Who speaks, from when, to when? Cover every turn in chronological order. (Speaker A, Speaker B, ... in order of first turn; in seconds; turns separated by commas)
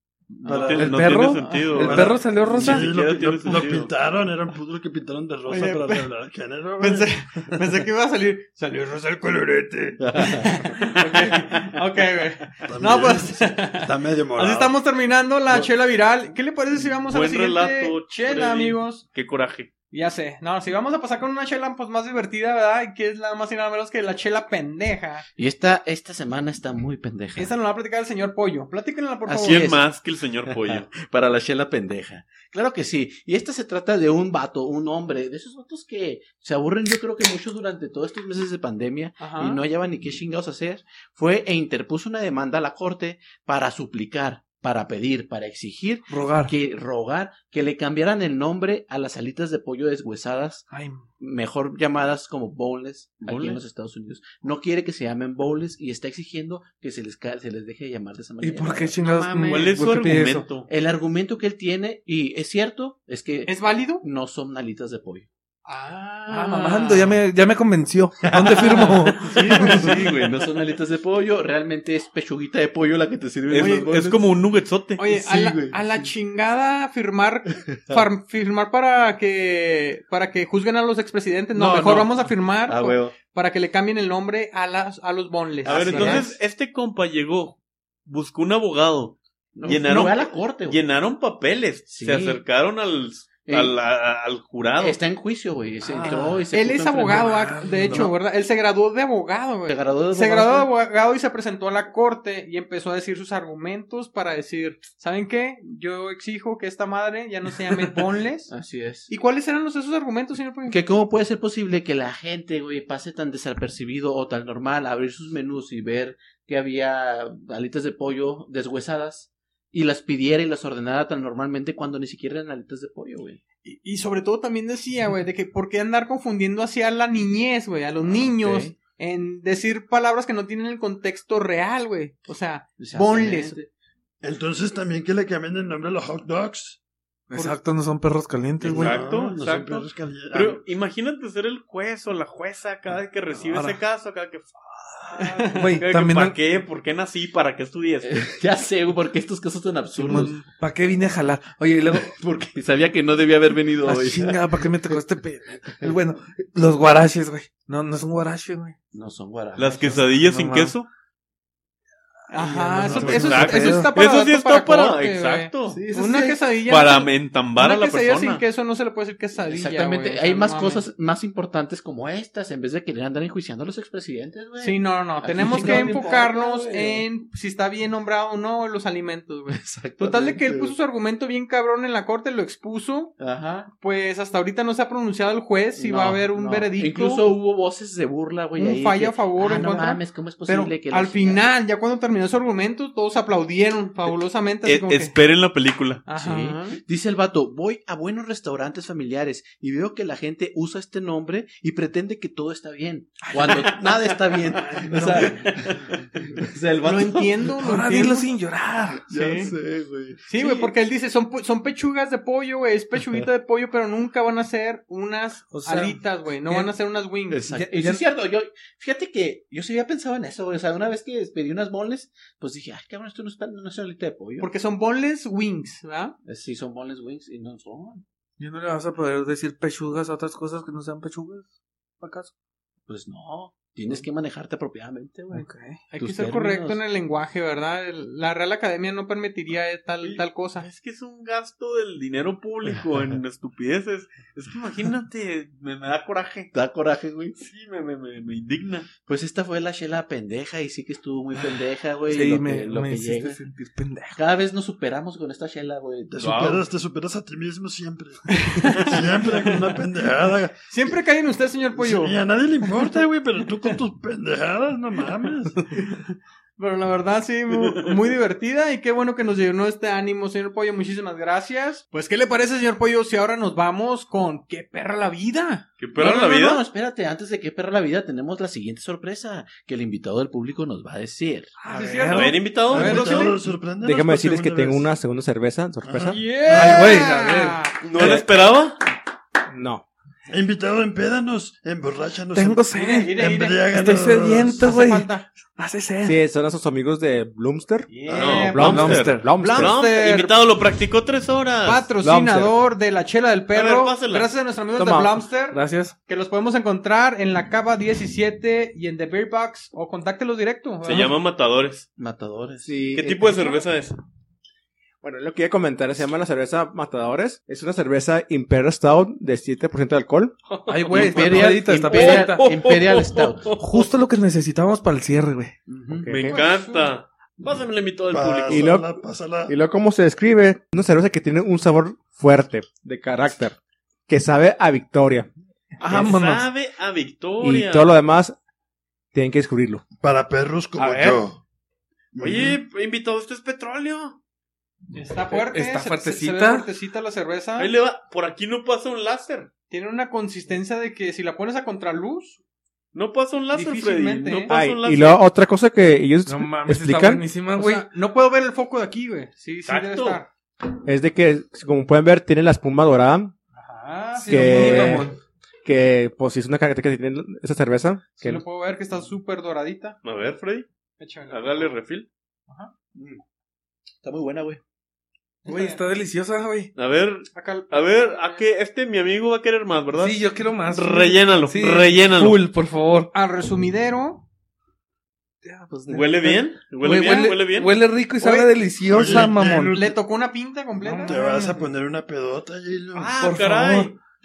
Speaker A: 0.4-0.8, Speaker B: 0.4-1.1, Speaker C: 0.5-3.9, Speaker D: 0.8-2.9, Speaker E: 1.4-1.7, Speaker B: 1.8-7.1, Speaker E: 5.5-6.1, Speaker E: 6.8-8.8, Speaker B: 8.7-10.0, Speaker A: 10.0-10.5, Speaker E: 10.2-19.0, Speaker B: 12.6-14.7, Speaker C: 17.1-19.7, Speaker E: 19.9-25.2, Speaker A: 25.4-27.5, Speaker E: 27.4-29.6, Speaker A: 29.2-29.8, Speaker C: 29.4-30.9, Speaker A: 30.5-50.7, Speaker E: 39.2-39.6, Speaker D: 46.1-46.5, Speaker D: 50.7-51.0, Speaker A: 51.2-59.7, Speaker C: 53.2-53.6, Speaker D: 58.4-60.5, Speaker E: 59.0-59.6, Speaker C: 59.5-60.7, Speaker A: 60.6-65.3, Speaker E: 63.5-64.0, Speaker E: 65.7-67.2, Speaker D: 66.3-70.1, Speaker A: 68.2-74.2, Speaker E: 68.5-69.8, Speaker C: 69.3-70.3, Speaker C: 73.5-75.0, Speaker E: 73.5-73.9, Speaker E: 75.0-86.3, Speaker A: 75.1-76.1, Speaker A: 77.7-78.0, Speaker A: 81.5-83.1, Speaker A: 85.6-86.4, Speaker C: 85.7-95.0, Speaker A: 89.5-90.8, Speaker A: 91.9-92.4, Speaker A: 93.5-93.8, Speaker A: 94.8-97.3, Speaker D: 95.8-96.4, Speaker E: 96.5-108.5, Speaker D: 97.1-98.1, Speaker A: 99.7-100.7, Speaker A: 108.5-109.1, Speaker E: 109.1-110.8, Speaker A: 110.7-123.4, Speaker E: 123.6-133.6, Speaker A: 128.0-128.7, Speaker A: 132.8-133.7, Speaker B: 134.2-136.8, Speaker D: 137.3-139.0, Speaker C: 138.6-148.2, Speaker A: 138.6-139.0, Speaker B: 138.7-140.6, Speaker D: 143.4-143.8, Speaker D: 145.1-146.4, Speaker E: 145.2-145.7, Speaker A: 148.0-150.4, Speaker D: 149.9-152.2, Speaker A: 152.1-155.0, Speaker D: 153.8-158.7, Speaker A: 155.7-155.9, Speaker A: 158.9-160.1, Speaker C: 159.6-160.9, Speaker D: 160.1-160.7, Speaker E: 162.3-170.8, Speaker D: 162.3-163.9, Speaker C: 163.0-165.8, Speaker A: 165.7-166.2, Speaker D: 165.9-166.3, Speaker C: 166.7-168.4, Speaker A: 169.4-177.0, Speaker E: 174.6-183.1, Speaker D: 175.4-176.0, Speaker A: 179.5-180.7, Speaker A: 183.2-183.7, Speaker E: 183.7-187.3, Speaker A: 185.8-191.4, Speaker E: 188.6-195.1, Speaker C: 194.6-196.0, Speaker E: 196.1-196.8, Speaker A: 196.1-207.5, Speaker D: 203.2-205.4, Speaker E: 206.8-208.3, Speaker D: 207.6-209.1, Speaker E: 209.1-209.5, Speaker A: 209.1-210.7, Speaker E: 210.3-217.4, Speaker D: 215.5-216.7, Speaker A: 217.3-224.5, Speaker D: 217.5-218.0, Speaker E: 224.4-226.2, Speaker A: 226.2-228.0, Speaker D: 228.4-231.5, Speaker D: 232.0-232.3, Speaker A: 232.9-235.5, Speaker D: 235.3-235.8, Speaker E: 235.9-240.7, Speaker A: 236.0-236.8, Speaker C: 240.0-246.5, Speaker A: 246.5-247.4, Speaker C: 247.4-248.9, Speaker A: 249.1-253.4, Speaker D: 252.1-254.2, Speaker A: 254.2-256.1, Speaker B: 256.1-261.0, Speaker C: 256.2-256.6, Speaker E: 258.3-259.6, Speaker E: 260.7-262.2, Speaker B: 261.7-265.6, Speaker E: 265.7-275.6, Speaker C: 275.8-276.6, Speaker A: 276.0-281.5, Speaker D: 281.6-283.0, Speaker E: 281.7-283.3, Speaker C: 282.1-283.4, Speaker B: 282.6-284.9, Speaker F: 283.8-286.2, Speaker B: 285.8-287.0, Speaker E: 286.1-287.8, Speaker D: 286.4-288.1, Speaker C: 287.8-288.8, Speaker F: 289.5-289.9, Speaker B: 290.3-294.7, Speaker D: 292.3-296.2, Speaker E: 292.7-295.3, Speaker F: 296.0-298.0, Speaker E: 297.9-300.3, Speaker C: 298.1-301.9, Speaker B: 298.1-298.4, Speaker F: 298.5-299.8, Speaker D: 298.6-299.3, Speaker E: 301.6-311.1, Speaker F: 302.0-302.5, Speaker C: 303.5-304.3, Speaker F: 304.8-305.2, Speaker D: 305.5-305.9, Speaker C: 310.8-311.9, Speaker A: 312.0-312.7, Speaker F: 312.6-313.6, Speaker C: 312.9-313.9, Speaker F: 315.0-320.4, Speaker D: 320.7-325.5, Speaker A: 320.9-323.6, Speaker A: 325.7-326.1, Speaker F: 326.0-326.4, Speaker C: 326.1-328.7, Speaker E: 326.3-326.9, Speaker B: 328.1-329.5, Speaker F: 328.5-328.9, Speaker F: 329.4-333.6, Speaker F: 334.1-335.3, Speaker C: 335.8-337.9, Speaker D: 335.8-336.4, Speaker F: 335.8-336.1, Speaker F: 337.4-338.4, Speaker F: 339.1-339.8, Speaker B: 340.0-341.4, Speaker D: 340.8-341.2, Speaker B: 342.1-342.6, Speaker C: 342.2-344.2, Speaker E: 344.9-347.7, Speaker D: 345.3-346.7, Speaker C: 347.6-349.5, Speaker E: 349.7-352.4, Speaker C: 352.9-355.2, Speaker E: 353.5-354.5, Speaker F: 354.5-357.2, Speaker D: 356.2-357.9, Speaker E: 357.6-360.3, Speaker C: 359.6-360.2, Speaker F: 360.8-363.3, Speaker E: 363.5-365.0, Speaker D: 364.2-365.2, Speaker F: 364.2-365.1, Speaker F: 365.6-368.4, Speaker E: 368.2-370.0, Speaker C: 370.0-370.6, Speaker E: 371.0-371.8, Speaker C: 371.3-372.1, Speaker A: 372.9-373.2, Speaker A: 374.0-374.6, Speaker E: 375.4-375.8, Speaker D: 375.4-376.7, Speaker C: 376.8-382.4, Speaker E: 377.3-378.4, Speaker D: 379.9-383.1, Speaker E: 383.1-384.2, Speaker D: 385.4-389.8, Speaker C: 385.9-387.7, Speaker E: 388.2-388.5, Speaker B: 388.8-390.0, Speaker E: 389.0-391.5, Speaker D: 390.8-391.5, Speaker B: 391.0-393.2, Speaker C: 392.9-393.9, Speaker D: 393.1-393.9